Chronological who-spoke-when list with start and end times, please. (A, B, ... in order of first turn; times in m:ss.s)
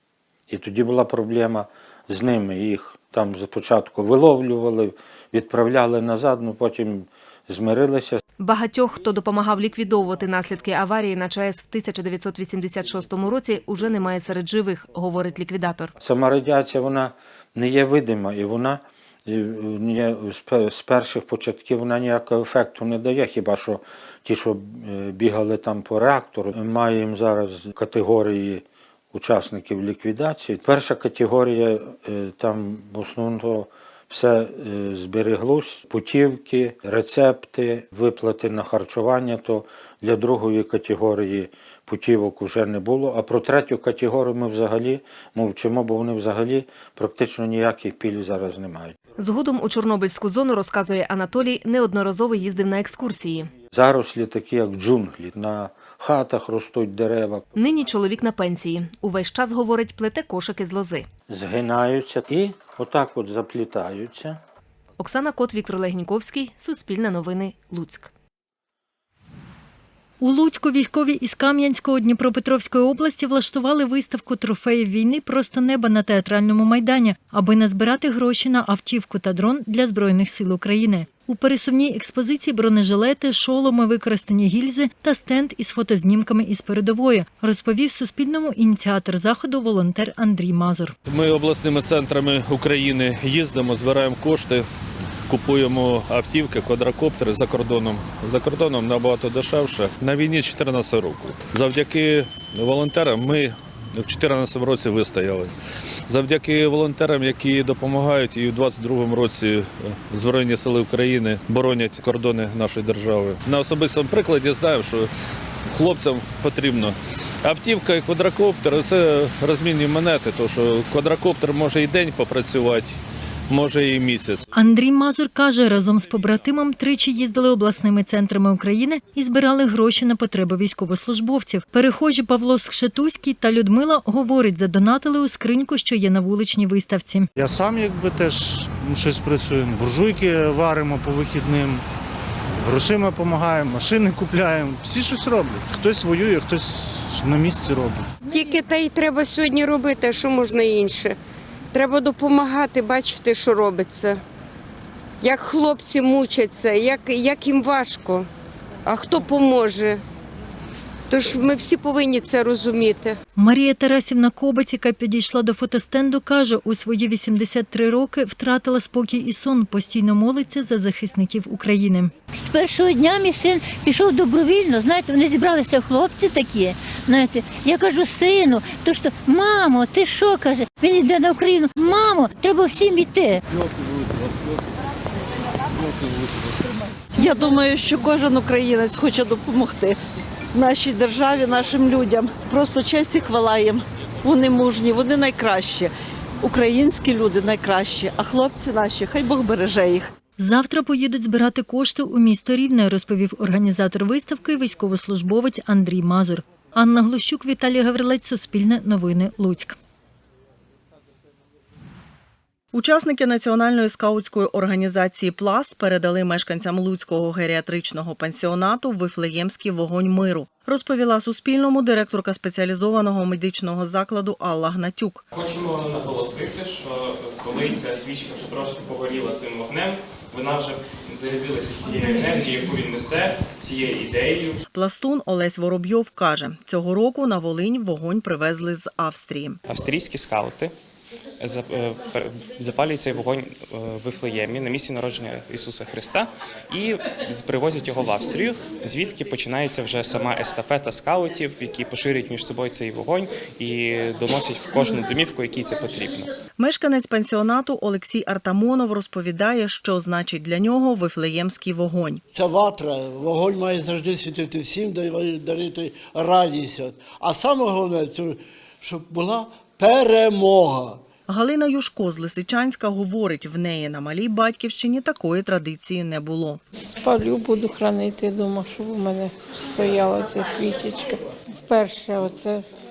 0:00.5-0:08.2 A
0:08.4-0:15.9 B
0:16.0-0:49.0 A
0:49.2-0:53.5 B
0:53.7-0:57.5 A
0:57.5-1:01.1 B
1:01.3-1:04.4 A
1:05.0-1:08.1 B
1:10.2-1:30.9 C
1:31.1-1:34.6 D
1:35.3-1:45.5 D
1:46.1-1:55.1 D
1:55.7-2:02.9 D
2:03.5-2:04.4 D
2:04.5-2:17.3 C
2:17.4-2:21.8 E
2:22.6-2:28.1 E
2:28.2-2:31.1 F
2:31.7-2:34.2 F
2:35.2-2:38.2 F
2:38.8-2:40.0 F
2:41.1-2:43.1 F
2:43.4-2:52.1 C
2:52.3-3:03.4 G
3:07.2-3:10.0 H
3:10.5-3:15.9 H
3:16.4-3:20.0 H
3:20.4-3:29.7 C
3:32.7-3:45.2 I
3:45.3-3:54.5 J
3:54.7-3:59.6 I
3:59.7-4:00.7 J
4:01.4-4:16.3 J
4:16.6-4:22.2 I
4:22.3-4:31.0 K
4:31.3-4:36.6 I
4:37.0-4:42.6 L